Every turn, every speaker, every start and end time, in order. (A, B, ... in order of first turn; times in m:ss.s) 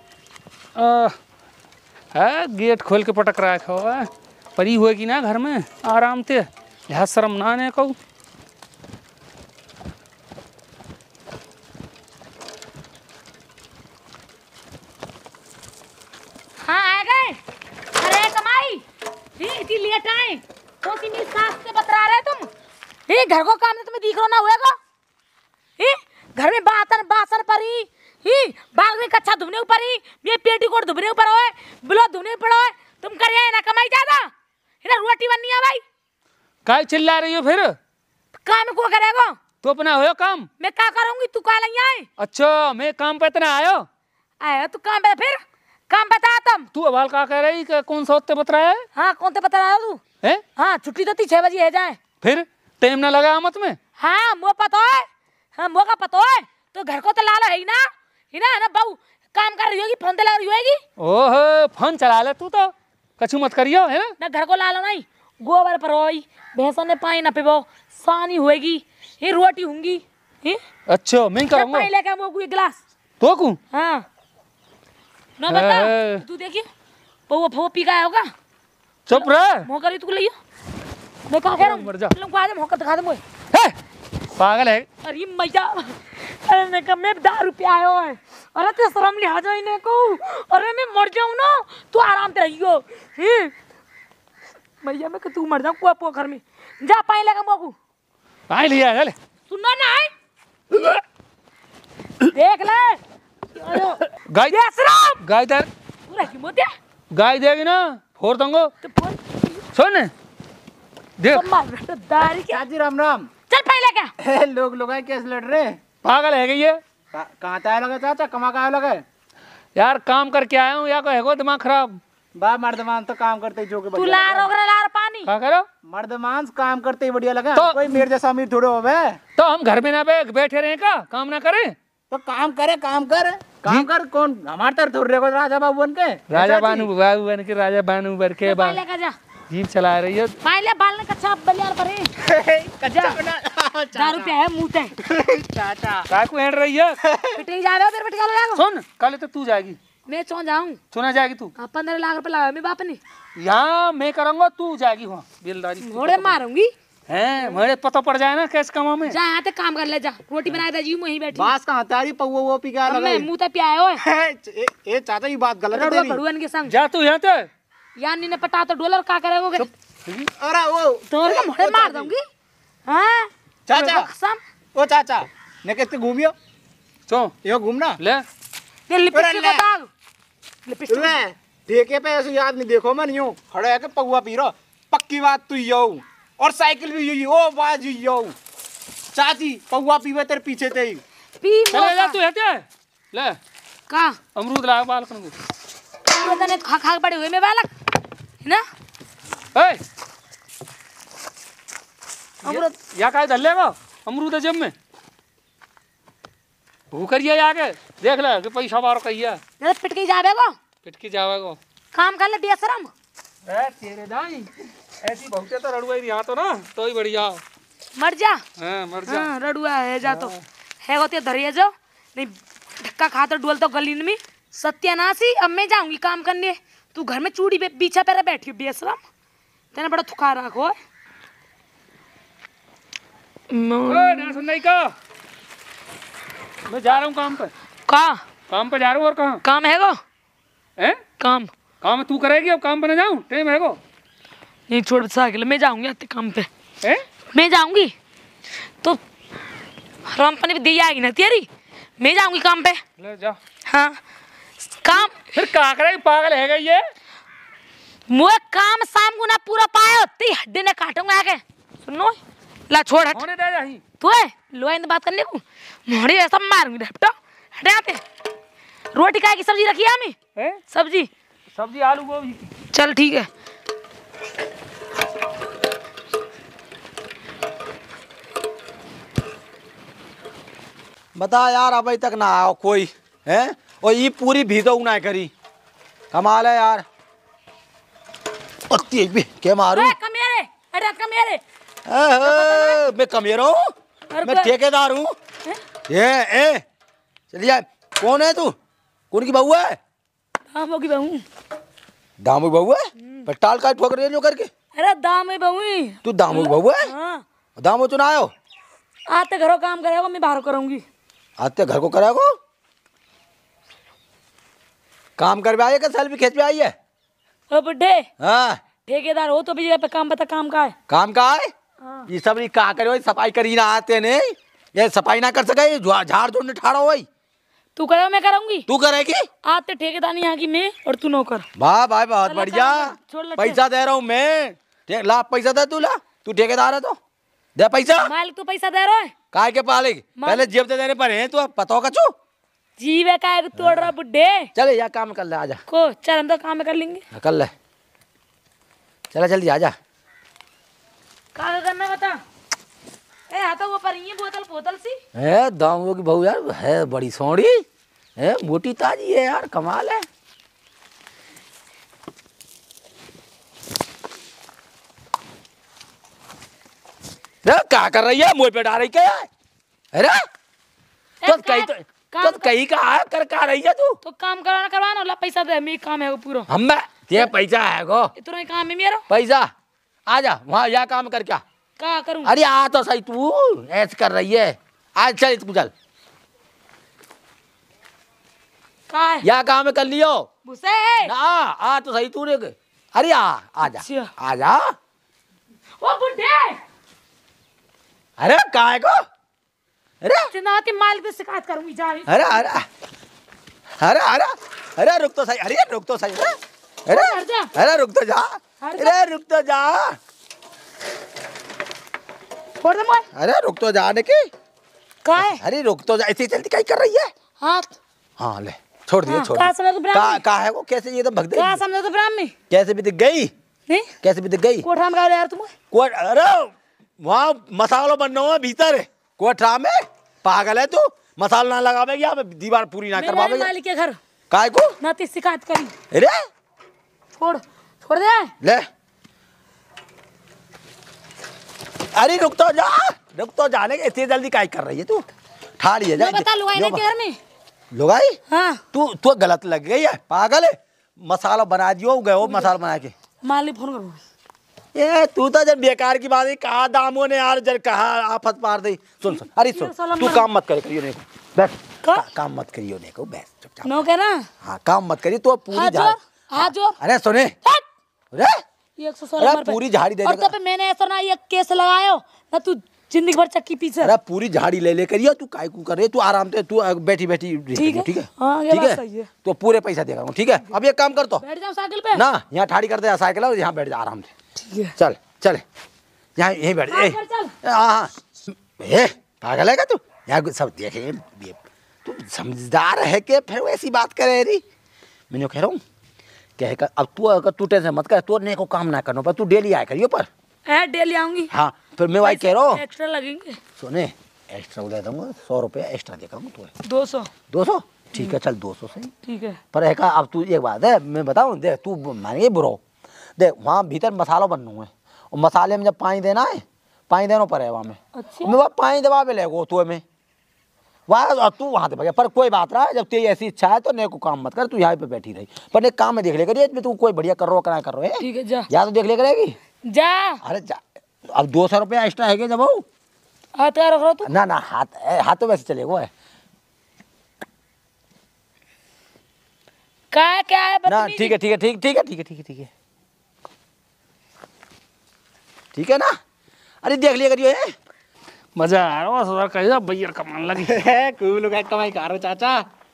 0:00.8-0:01.2 A
0:02.1-0:08.0 A
0:16.6-0:17.4 B
0:18.0-0:18.8 B
0:19.4-0:22.5 B
0:23.1-0:24.8 B
0:25.8-0:34.3 B
0:34.8-0:35.8 B
0:36.6-0:37.8 A
0:38.4-0:39.4 B
0:39.6-0:40.5 A
0:40.6-0:42.1 B
0:42.2-0:43.9 A
0:44.4-0:46.7 B
0:46.7-0:48.9 A
0:49.0-0:50.0 B
0:50.6-0:52.0 B
0:52.2-0:53.8 A
0:54.0-1:00.8 B
1:01.0-1:04.2 A
1:04.2-1:10.6 B
1:10.9-1:11.9 A
1:11.5-1:12.8 B
1:13.2-1:13.6 A
1:13.7-1:14.0 B
1:15.4-1:16.7 B
1:15.5-1:16.2 A
1:17.3-1:18.3 B
1:19.1-1:19.7 A
1:19.1-1:20.3 B
1:21.3-1:23.2 B
1:21.6-1:22.2 A
1:24.4-1:24.9 A
1:25.0-1:33.5 B
1:34.8-1:37.8 B
1:38.5-1:39.2 A
1:39.5-1:40.1 B
1:40.7-1:41.0 A
1:42.2-1:43.0 B
1:43.6-1:45.2 B
1:44.1-1:44.6 A
1:45.2-1:45.7 A
1:46.1-1:46.7 B
1:47.1-1:48.7 A
1:48.8-1:49.6 B
1:49.7-1:50.1 A
1:51.2-1:51.4 A
1:51.3-1:52.6 B
1:52.5-1:53.3 C
1:53.5-1:54.1 B
1:54.2-1:55.8 C
1:56.0-1:56.8 A
1:57.1-1:59.0 C
1:59.8-2:02.0 A
2:02.4-2:04.5 C
2:03.9-2:05.3 B
2:05.3-2:05.7 A
2:05.8-2:09.2 C
2:07.5-2:08.0 A
2:09.4-2:11.8 A
2:12.1-2:16.9 C
2:16.3-2:18.8 A
2:18.4-2:19.2 B
2:19.5-2:20.4 A
2:20.4-2:22.1 B
2:22.2-2:24.3 C
2:22.8-2:23.2 B
2:23.9-2:25.0 B
2:25.0-2:26.1 C
2:26.1-2:27.0 A
2:27.0-2:27.4 C
2:27.4-2:28.6 B
2:28.6-2:29.8 A
2:30.1-2:30.8 B
2:30.9-2:31.5 A
2:31.6-2:33.0 B
2:33.4-2:36.4 A
2:35.8-2:36.7 B
2:37.1-2:39.2 A
2:39.1-2:41.5 B
2:41.3-2:43.3 C
2:42.9-2:44.0 B
2:44.0-2:46.2 C
2:45.7-2:46.8 B
2:46.7-2:47.5 A
2:48.0-2:49.7 B
2:49.6-2:50.3 A
2:50.4-2:52.1 C
2:51.1-2:52.2 B
2:52.9-2:54.4 B
2:53.7-2:54.1 C
2:54.8-2:56.4 C
2:57.1-2:57.4 A
2:57.4-2:58.0 C
2:58.0-2:58.2 A
2:58.9-2:59.9 B
2:59.1-2:59.7 C
3:00.6-3:01.2 B
3:00.9-3:08.4 C
3:09.1-3:11.0 C
3:11.4-3:12.2 B
3:11.7-3:13.4 A
3:13.9-3:14.2 B
3:14.4-3:15.4 A
3:16.1-3:17.7 B
3:19.6-3:19.8 A
3:22.4-3:24.7 A
3:22.4-3:22.7 B
3:26.9-3:29.4 A
3:29.6-3:30.6 B
3:30.8-3:31.6 A
3:31.9-3:32.9 B
3:33.5-3:37.4 A
3:38.0-3:38.4 B
3:38.6-3:39.3 A
3:39.1-3:49.0 B
3:40.0-3:40.4 A
3:49.7-3:50.8 B
3:53.5-3:54.4 B
3:53.9-3:54.9 A
3:56.7-3:57.5 A
3:57.9-3:58.2 B
3:58.5-3:59.4 A
3:59.4-4:00.0 B
4:01.2-4:01.5 B
4:01.8-4:03.8 A
4:04.7-4:06.5 B
4:07.3-4:07.9 B
4:10.1-4:12.8 B
4:13.0-4:13.4 A
4:13.7-4:14.0 B
4:14.7-4:15.2 B
4:15.1-4:16.9 A
4:18.1-4:23.2 B
4:23.1-4:23.8 A
4:24.0-4:28.0 B
4:28.9-4:30.2 B
4:30.7-4:31.1 B
4:31.6-4:32.5 A
4:32.7-4:33.3 B
4:41.2-4:45.3 D
4:46.1-4:46.8 D
4:48.7-4:50.0 D
4:49.7-4:51.4 B
4:51.9-4:53.6 D
4:52.2-4:52.8 B
4:54.1-4:54.5 B
4:54.2-4:55.1 D
4:55.9-4:56.6 D
4:57.3-4:58.5 D
4:59.1-4:59.8 D
5:00.5-5:01.2 B
5:02.2-5:04.5 D
5:04.7-5:07.2 B
5:06.0-5:06.9 D
5:07.6-5:08.3 D
5:09.1-5:10.8 B
5:11.4-5:12.3 D
5:15.2-5:16.7 D
5:17.5-5:18.1 B
5:18.2-5:18.6 D
5:18.8-5:20.8 B
5:20.9-5:21.5 D
5:21.8-5:22.1 B
5:22.1-5:27.1 D
5:27.8-5:28.7 B
5:28.7-5:29.3 D
5:29.4-5:31.5 B
5:31.6-5:37.0 D
5:32.3-5:33.6 B
5:37.6-5:38.1 D
5:38.0-5:39.1 B
5:39.3-5:42.1 D
5:40.2-5:40.5 B
5:42.8-5:44.5 B
5:43.6-5:43.9 D
5:44.6-5:45.6 D
5:45.7-5:47.0 B
5:47.1-5:47.5 D
5:49.1-5:49.8 D
5:51.4-5:52.2 B
5:53.3-5:55.0 B
5:55.2-5:57.6 D
5:58.2-6:00.0 D
6:07.4-6:09.3 D
6:09.9-6:10.2 D
6:11.2-6:12.5 B
6:11.2-6:14.0 D
6:14.0-6:16.5 B
6:16.5-6:18.1 D
6:18.2-6:19.0 B
6:19.1-6:19.5 D
6:20.1-6:21.4 D
6:21.8-6:22.3 B
6:22.2-6:25.7 D
6:28.9-6:29.3 B
6:29.2-6:30.3 D
6:30.4-6:31.1 B
6:31.0-6:34.7 D
6:33.6-6:34.1 B
6:35.8-6:36.6 B
6:38.2-6:39.0 D
6:40.0-6:40.3 D
6:40.3-6:42.5 B
6:42.1-6:42.6 D
6:43.8-6:50.0 D
6:46.9-6:47.5 B
6:48.6-6:49.0 B
6:52.6-6:53.1 B
6:53.1-6:54.3 D
6:55.0-6:55.4 B
6:55.2-6:57.1 D
6:57.4-6:57.8 B
6:58.2-7:01.6 D
6:59.1-7:00.2 B
7:01.4-7:02.3 B
7:02.5-7:03.3 D
7:04.0-7:04.7 D
7:04.6-7:05.5 B
7:05.7-7:13.5 D
7:12.9-7:14.0 B
7:14.3-7:14.8 D
7:14.8-7:15.7 B
7:15.9-7:16.2 D
7:17.2-7:18.3 B
7:21.9-7:25.0 D
7:25.6-7:26.8 D
7:26.0-7:27.2 B
7:27.7-7:28.2 D
7:28.3-7:28.6 B
7:28.7-7:32.9 D
7:32.2-7:32.5 B
7:33.2-7:34.0 B
7:34.7-7:43.8 D
7:39.5-7:40.3 B
7:41.8-7:42.1 B
7:43.6-7:44.3 B
7:44.4-7:47.4 D
7:45.5-7:46.8 B
7:48.1-7:48.4 D
7:48.8-7:53.9 B
7:49.2-7:50.3 D
7:53.8-8:01.2 D
7:57.6-7:59.1 B
8:01.2-8:02.0 B
8:01.9-8:04.1 D
8:04.4-8:04.8 B
8:04.8-8:05.4 D
8:06.2-8:07.9 D
8:06.7-8:07.3 B
8:08.5-8:14.4 D
8:15.1-8:15.6 D
8:16.4-8:20.1 D
8:20.5-8:21.3 B
8:21.3-8:22.6 D
8:22.0-8:23.4 B
8:23.6-8:26.5 D
8:26.6-8:27.1 B
8:27.3-8:28.9 D
8:29.0-8:29.4 B
8:29.5-8:32.6 D
8:33.2-8:39.8 D
8:38.0-8:38.4 B
8:40.9-8:49.4 D
8:48.0-8:48.5 B
8:49.6-8:50.2 B
8:50.2-8:52.6 D
8:53.4-8:54.1 B
8:54.0-8:55.9 D
8:59.9-9:01.2 B
9:00.7-9:02.5 D
9:05.5-9:05.9 D
9:06.6-9:07.5 D
9:08.4-9:10.6 A
9:10.5-9:12.4 C